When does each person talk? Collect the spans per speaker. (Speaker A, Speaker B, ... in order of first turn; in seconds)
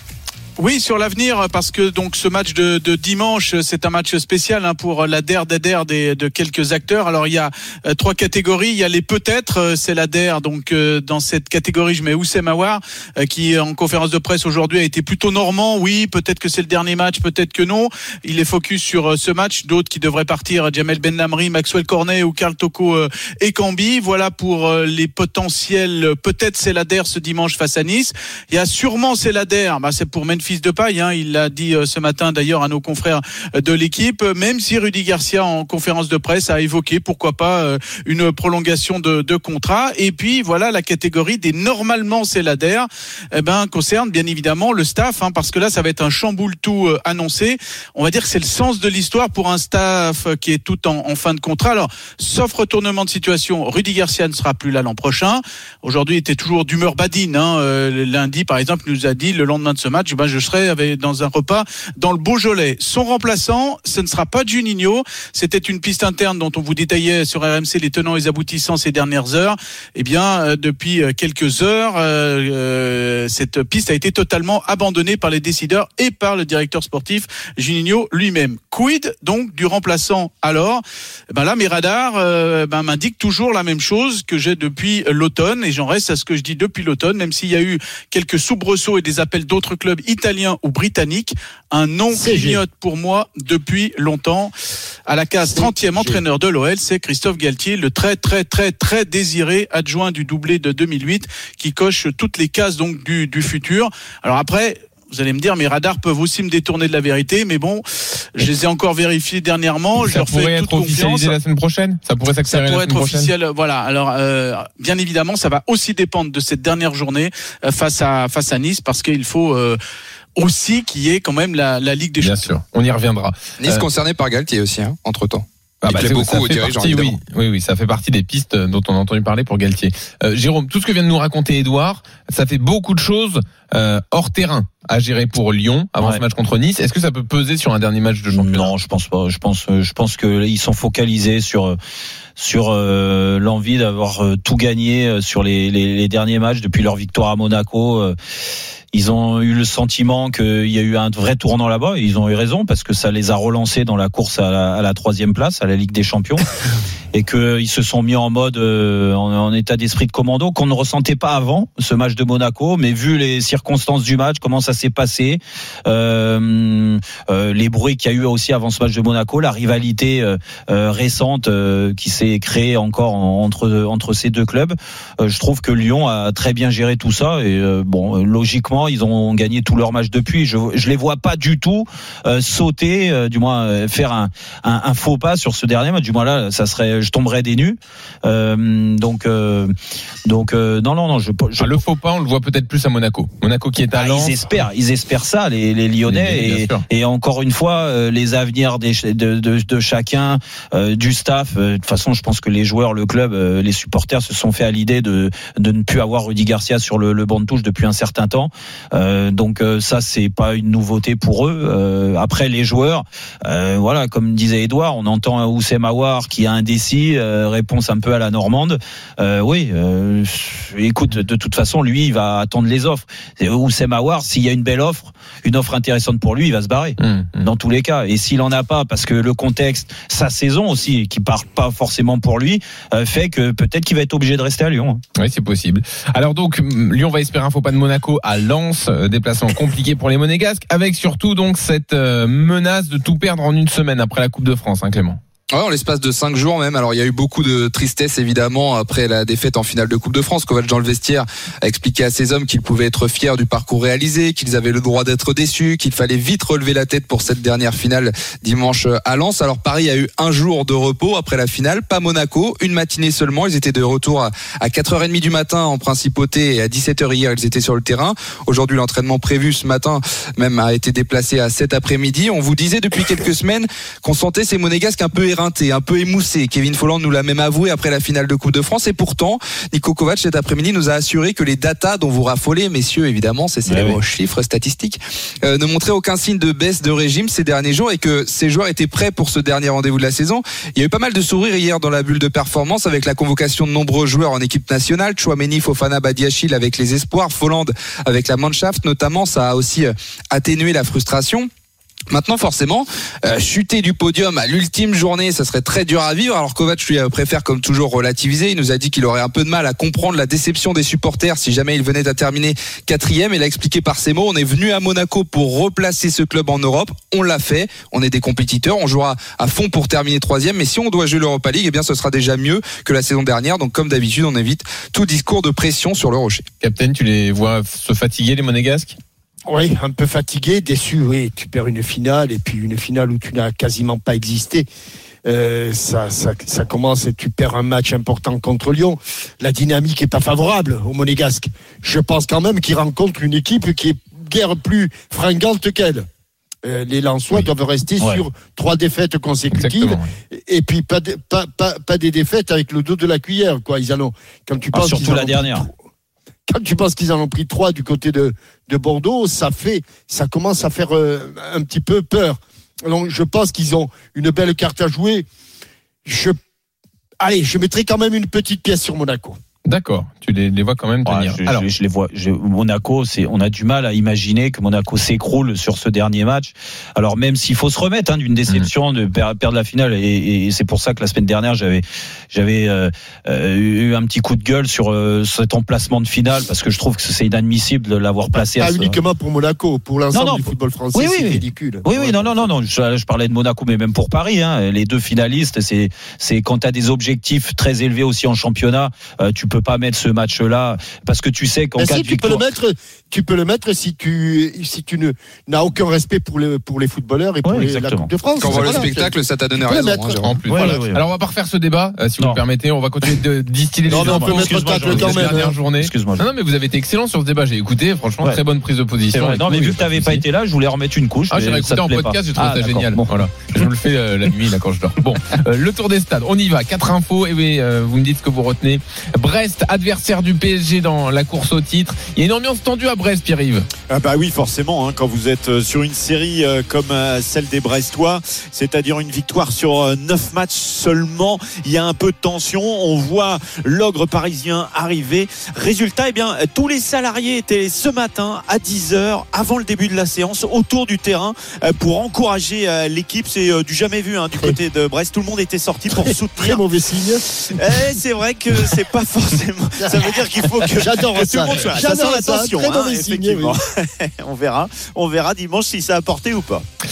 Speaker A: 0.6-94.5, 95.1-107.8, 108.3-111.4, 112.5-119.8, 120.4-122.5
Speaker B: 92.1-92.6, 95.5-96.2, 329.5-334.7, 335.2-346.1, 346.6-355.8, 356.5-365.2, 366.0-366.4, 367.2-369.4, 388.5-392.5, 401.8-410.8, 413.9-415.6, 455.9-457.6, 459.8-460.1, 460.7-463.6
Speaker C: 110.0-113.3, 122.2-123.8, 125.8-138.7, 191.6-194.4, 196.1-196.8, 227.0-227.4, 235.2-245.2, 326.6-329.0, 349.5-350.1, 369.6-371.7, 410.2-420.2, 421.3-433.7
Speaker D: 123.6-127.2, 245.5-301.5, 302.1-326.4, 408.4-410.4
Speaker E: 138.3-141.8, 142.4-148.1, 148.9-156.4, 157.1-189.7, 190.2-191.8, 193.9-235.0, 283.6-284.0, 348.0-348.2, 354.7-355.6, 371.0-388.9, 390.1-402.4, 407.4-408.1, 410.5-411.0, 413.9-416.2, 419.1-423.6
Speaker F: 433.9-456.6, 457.4-466.6